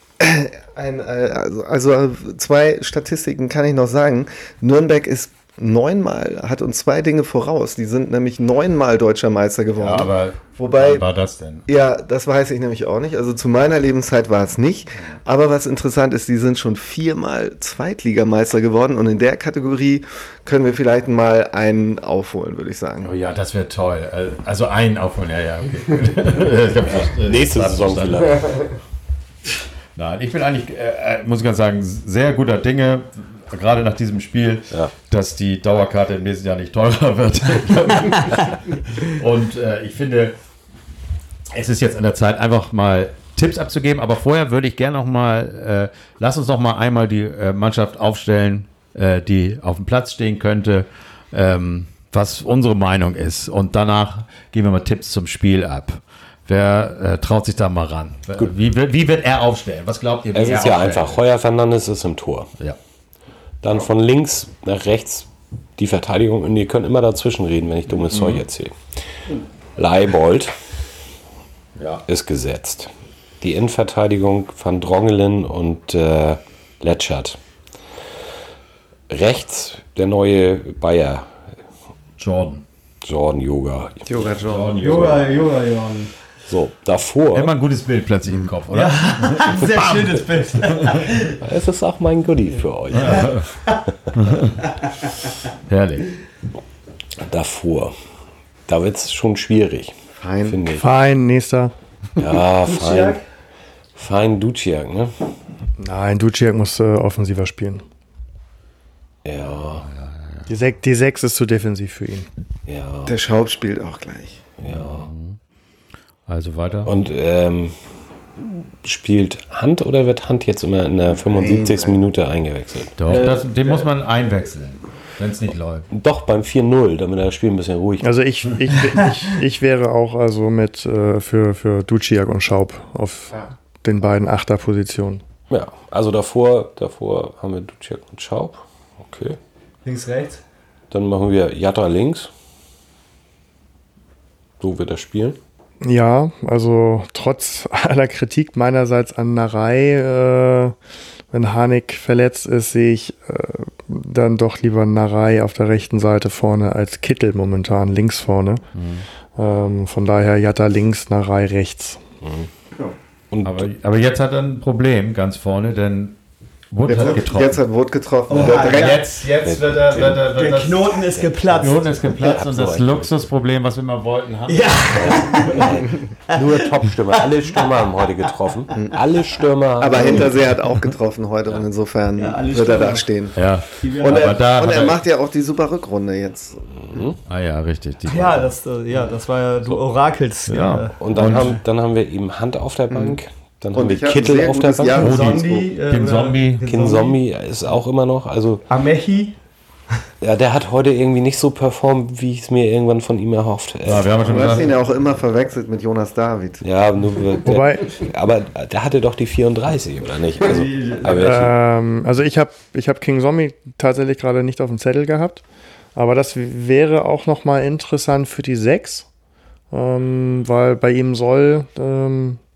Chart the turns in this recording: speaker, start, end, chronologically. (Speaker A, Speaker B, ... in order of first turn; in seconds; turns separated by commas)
Speaker A: 0.2-11.0, Speaker B: 9.8-11.7, Speaker A: 11.7-23.1, Speaker B: 23.0-28.4, Speaker C: 27.2-28.5, Speaker B: 30.0-40.4, Speaker B: 41.5-61.2, Speaker C: 60.3-62.5, Speaker C: 63.6-69.0, Speaker B: 68.1-68.4, Speaker C: 69.8-70.5, Speaker B: 71.8-72.0, Speaker C: 72.1-77.4, Speaker C: 79.1-81.3, Speaker B: 82.2-82.6, Speaker C: 83.0-84.1, Speaker A: 84.1-85.0, Speaker B: 84.4-85.5, Speaker D: 84.8-86.1, Speaker C: 86.5-87.5, Speaker B: 87.3-91.1, Speaker D: 88.7-91.4, Speaker C: 91.4-93.4, Speaker B: 92.9-93.5, Speaker D: 93.1-93.8, Speaker B: 94.2-94.6, Speaker D: 94.7-95.1, Speaker B: 95.7-96.1, Speaker C: 97.2-98.0, Speaker C: 98.7-100.9, Speaker A: 100.1-100.6, Speaker E: 100.7-101.7, Speaker C: 102.2-103.2, Speaker D: 102.6-103.2, Speaker C: 104.0-105.1, Speaker E: 105.8-107.8, Speaker C: 109.2-109.9, Speaker B: 109.8-110.5, Speaker E: 110.5-112.3, Speaker C: 112.7-113.1, Speaker A: 113.1-114.4, Speaker C: 114.6-115.1, Speaker B: 114.7-115.4, Speaker B: 116.3-116.9, Speaker C: 116.9-117.7, Speaker C: 118.4-123.2, Speaker A: 121.3-122.0, Speaker B: 123.0-125.9, Speaker D: 123.1-123.9, Speaker C: 125.9-128.1, Speaker E: 128.0-135.2, Speaker C: 135.5-139.4, Speaker D: 139.8-140.4, Speaker C: 140.9-142.3, Speaker C: 144.6-145.4, Speaker E: 145.8-150.8, Speaker E: 151.3-158.6, Speaker B: 158.8-159.1, Speaker E: 159.4-162.0, Speaker C: 162.2-162.5, Speaker C: 163.3-163.7, Speaker B: 163.4-166.2, Speaker B: 166.7-167.6, Speaker A: 166.9-169.0, Speaker D: 168.3-169.1, Speaker B: 168.3-171.0, Speaker C: 169.4-170.2, Speaker D: 170.2-172.3, Speaker C: 171.1-173.2, Speaker B: 171.6-175.7, Speaker D: 174.5-178.1, Speaker C: 174.9-180.5, Speaker A: 179.8-183.4, Speaker D: 182.2-183.1, Speaker B: 183.3-185.0, Speaker D: 183.8-184.3, Speaker A: 184.0-187.1, Speaker C: 186.9-187.2, Speaker B: 187.3-188.5, Speaker D: 188.1-191.6, Speaker B: 190.5-191.6, Speaker C: 191.0-195.1, Speaker A: 192.9-193.2, Speaker A: 193.7-195.7, Speaker D: 194.9-197.2, Speaker B: 195.0-196.7, Speaker C: 196.7-198.7, Speaker D: 198.7-199.3, Speaker C: 200.2-204.6, Speaker B: 203.8-204.7, Speaker A: 204.2-206.6, Speaker C: 206.6-211.5, Speaker E: 207.4-208.0, Speaker D: 210.4-211.4, Speaker E: 211.1-215.4, Speaker E: 215.9-219.1, Speaker E: 219.7-222.4